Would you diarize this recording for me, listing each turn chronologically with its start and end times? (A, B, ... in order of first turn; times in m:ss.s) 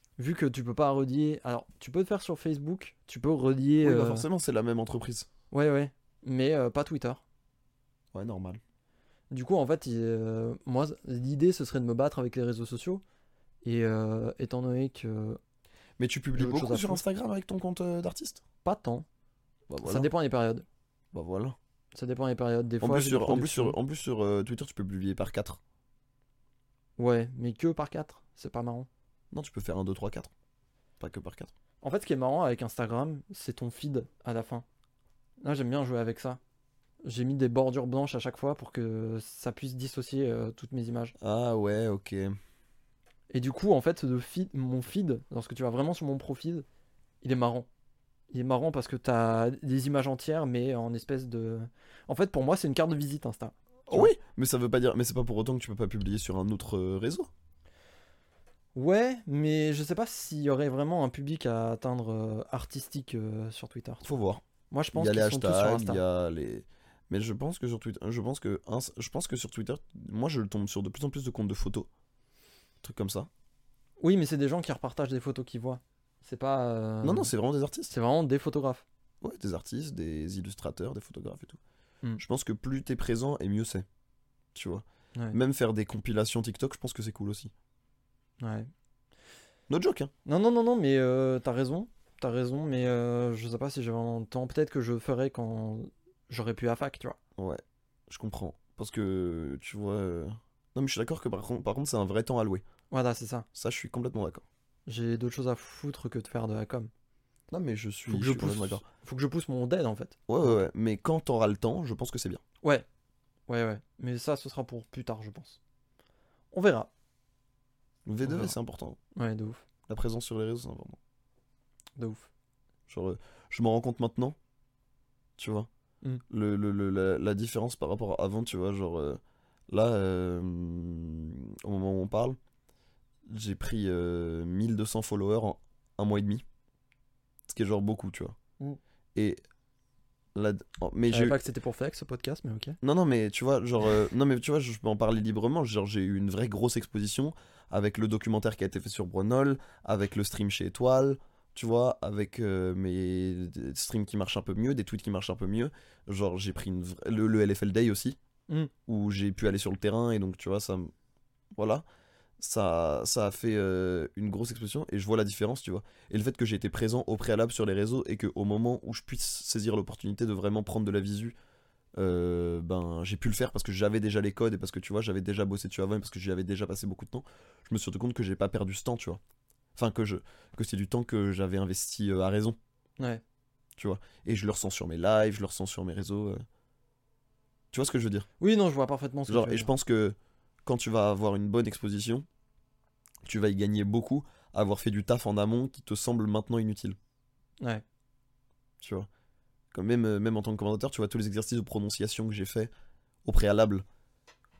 0:00.2-0:04.3 A
0:03.8-0:05.3 B
0:05.5-0:07.2 A
0:08.1-0:08.6 B
0:09.3-0:13.0 A
0:13.6-0:15.4 A
0:16.0-0:18.4 B
0:16.3-0:17.0 A
0:18.6-0:19.0 A
0:19.7-0:20.1 B
0:19.8-0:20.6 A
0:21.1-0:21.6 B
0:21.9-0:23.8 A
0:22.8-0:25.6 B
0:27.0-0:28.9 A
0:29.3-0:30.3 B
0:31.0-0:31.5 B
0:31.8-0:34.6 A
0:35.4-0:36.4 A
0:37.0-0:41.1 A
0:41.2-0:42.3 B
0:43.3-0:46.6 A
0:47.2-0:47.7 A
0:48.3-0:54.1 A
0:53.9-0:57.3 B
0:58.7-1:04.0 A
1:04.0-1:11.9 B
1:04.7-1:06.0 A
1:12.8-1:13.3 B
1:14.0-1:17.3 A
1:17.0-1:17.9 B
1:17.9-1:18.8 A
1:19.2-1:21.6 B
1:22.2-1:23.8 B
1:24.5-1:27.5 B
1:28.4-1:28.7 A
1:29.7-1:30.1 B
1:30.2-1:37.2 A
1:37.4-1:42.6 B
1:42.9-1:43.4 A
1:43.5-1:44.4 B
1:44.9-1:46.9 A
1:47.5-1:48.8 B
1:48.1-1:50.6 A
1:50.3-1:52.4 B
1:53.5-1:55.6 A
1:56.5-1:56.9 A
1:58.0-1:59.0 B
1:58.2-1:58.5 A
1:59.2-1:59.6 A
1:59.9-2:01.0 B
2:02.0-2:02.3 A
2:02.9-2:04.4 B
2:05.4-2:05.7 B
2:06.3-2:12.4 B
2:13.3-2:16.4 B
2:17.5-2:18.4 B
2:19.1-2:19.4 B
2:20.3-2:21.4 B
2:21.1-2:22.8 A
2:22.8-2:38.2 B
2:38.9-2:40.9 B
2:41.5-2:41.8 B
2:42.4-2:51.4 B
2:52.0-2:59.2 B
2:59.8-3:02.6 B
3:03.8-3:06.4 B
3:07.7-3:08.3 B
3:08.4-3:09.7 A
3:09.3-3:12.2 B
3:13.2-3:17.0 B
3:18.8-3:19.1 B
3:19.7-3:22.7 B
3:23.2-3:23.8 B